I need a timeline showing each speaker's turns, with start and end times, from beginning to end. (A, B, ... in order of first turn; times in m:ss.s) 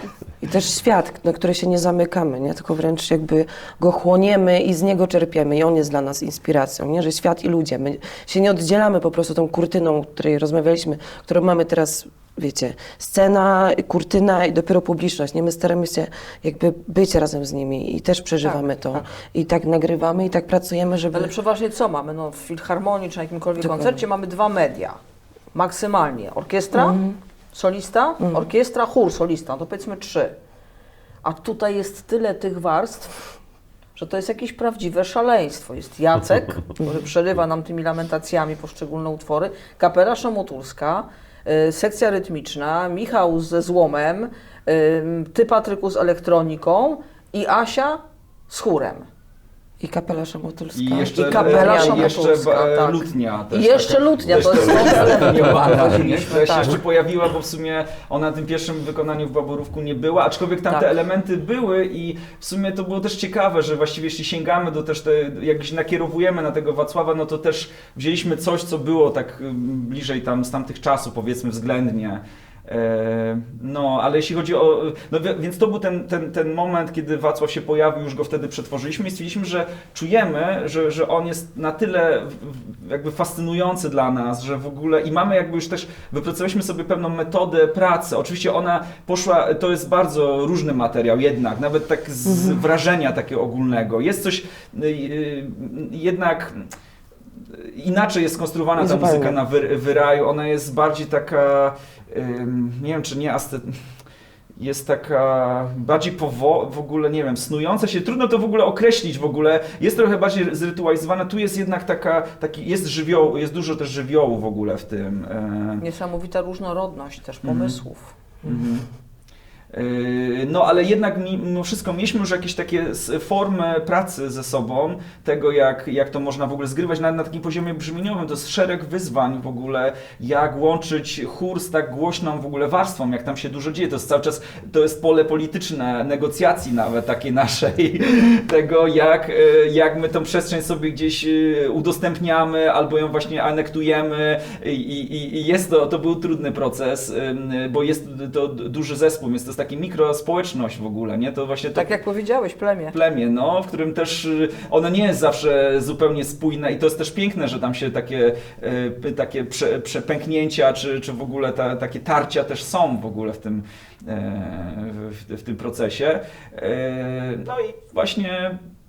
0:00.4-0:21.3 A
0:18.4-0:19.0 B
0:21.1-0:25.0 B
0:23.6-0:24.0 A
0:25.5-0:27.0 B
0:26.7-0:27.2 A
0:27.5-0:30.4 B
0:31.2-0:33.2 B
0:34.0-0:49.1 B
0:49.8-0:52.2 A
0:50.7-1:36.7 C
0:51.1-0:56.8 B
1:32.2-1:32.6 A
1:37.5-1:43.8 C
1:38.8-1:39.4 A
1:44.6-1:55.8 C
1:55.8-1:58.1 B
1:57.4-1:57.8 C
1:58.4-1:58.9 C
1:59.7-2:31.9 C
2:31.8-2:32.9 B
2:32.9-2:48.6 C